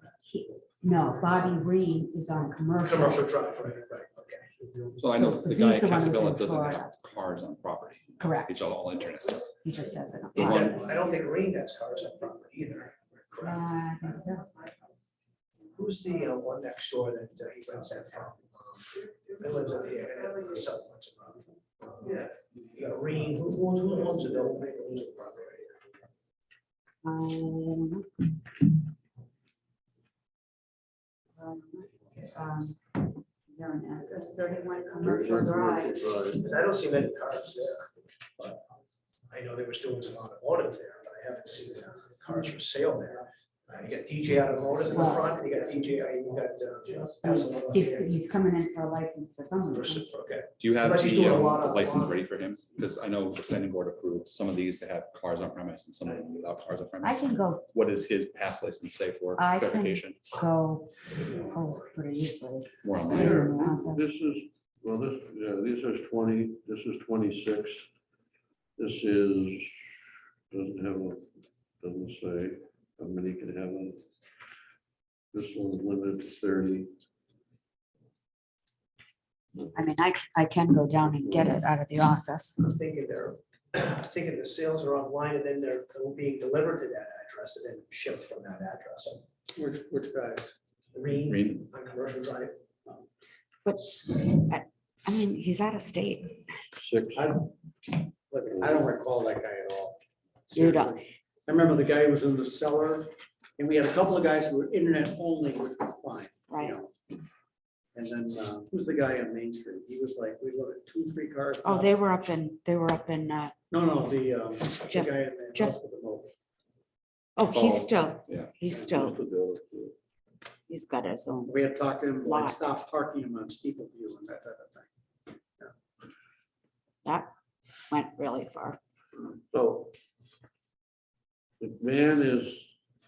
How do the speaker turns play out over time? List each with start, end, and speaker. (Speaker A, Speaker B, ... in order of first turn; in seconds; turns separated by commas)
Speaker A: 0.2-3.2, Speaker B: 2.8-4.6, Speaker C: 5.0-9.5, Speaker A: 5.2-6.9, Speaker A: 8.2-8.8, Speaker A: 9.6-11.0, Speaker B: 10.3-13.7, Speaker C: 10.4-10.8, Speaker A: 13.4-14.7, Speaker B: 15.7-25.8, Speaker A: 27.0-28.7, Speaker A: 31.4-36.2, Speaker D: 35.0-36.4, Speaker B: 36.3-38.6, Speaker B: 39.3-48.1, Speaker A: 44.9-45.3, Speaker A: 47.2-50.1, Speaker B: 49.6-52.2, Speaker C: 50.6-60.2, Speaker A: 57.0-57.7, Speaker A: 59.4-64.1, Speaker C: 62.8-63.5, Speaker D: 63.1-67.9, Speaker D: 68.8-71.3, Speaker D: 71.8-74.0, Speaker D: 75.3-76.9, Speaker A: 79.7-82.6, Speaker D: 81.1-81.5, Speaker B: 82.6-89.2, Speaker E: 89.5-90.5, Speaker B: 90.9-92.5, Speaker C: 91.3-91.6, Speaker A: 93.7-96.6, Speaker D: 96.8-97.3, Speaker E: 97.2-97.5, Speaker E: 98.3-100.0, Speaker E: 100.5-106.9, Speaker A: 100.5-101.0, Speaker E: 107.9-112.0, Speaker A: 111.6-113.6, Speaker E: 113.7-116.3, Speaker A: 114.8-115.7, Speaker A: 117.4-119.2, Speaker C: 117.5-118.5, Speaker D: 118.7-120.0, Speaker A: 120.7-121.6, Speaker E: 121.5-124.9, Speaker A: 122.2-122.8, Speaker A: 127.9-128.8, Speaker D: 129.5-129.9, Speaker D: 131.6-132.6